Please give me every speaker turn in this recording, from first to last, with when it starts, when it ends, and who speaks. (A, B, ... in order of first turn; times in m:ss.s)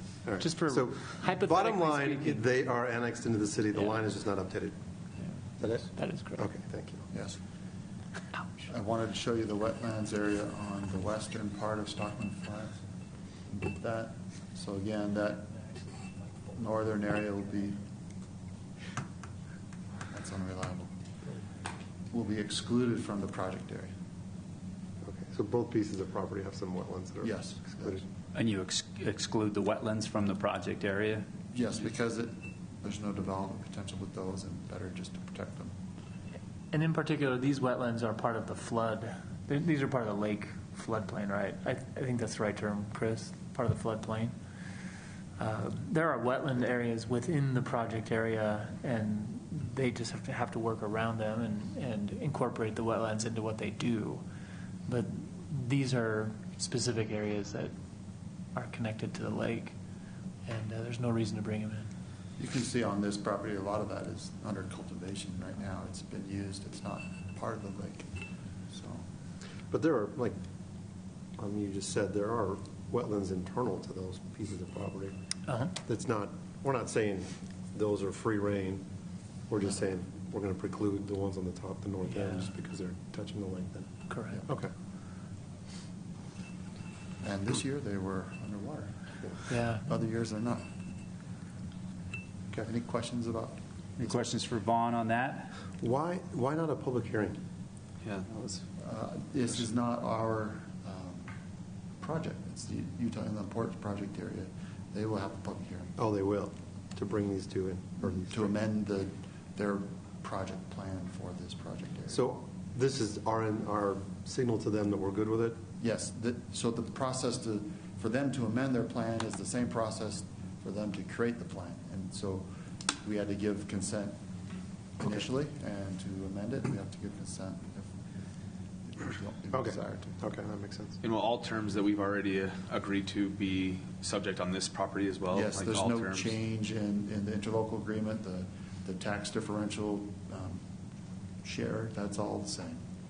0:00.2-0:04.8 A
0:00.4-0:02.4 B
0:05.2-0:06.4 B
0:05.6-0:07.1 A
0:07.1-0:07.4 C
0:08.7-0:12.8 C
0:13.5-0:17.9 C
0:20.1-0:20.9 C
0:22.1-0:23.9 C
0:25.0-0:28.1 A
0:27.2-0:28.0 C
0:28.3-0:31.3 D
0:31.5-0:35.7 C
0:36.7-0:44.4 B
0:45.4-0:54.2 B
0:54.9-0:57.7 B
0:58.6-0:59.8 B
1:00.5-1:01.9 B
1:02.4-1:08.1 C
1:08.7-1:09.1 C
1:09.7-1:10.4 A
1:11.4-1:15.2 A
1:15.5-1:15.7 B
1:15.8-1:18.8 A
1:19.5-1:24.7 A
1:22.1-1:22.5 B
1:24.1-1:24.4 B
1:27.2-1:30.7 C
1:29.5-1:29.9 B
1:32.6-1:34.2 C
1:34.0-1:35.5 D
1:35.8-1:37.4 A
1:38.0-1:38.6 E
1:38.8-1:41.3 C
1:42.0-1:46.0 C
1:46.0-1:48.6 A
1:48.0-1:52.3 C
1:52.1-1:55.6 A
1:55.8-2:02.5 C
2:03.0-2:04.2 C
2:05.0-2:07.9 C
2:08.9-2:10.2 C
2:09.5-2:11.0 A
2:11.0-2:16.4 E
2:15.3-2:20.6 C
2:21.4-2:22.8 C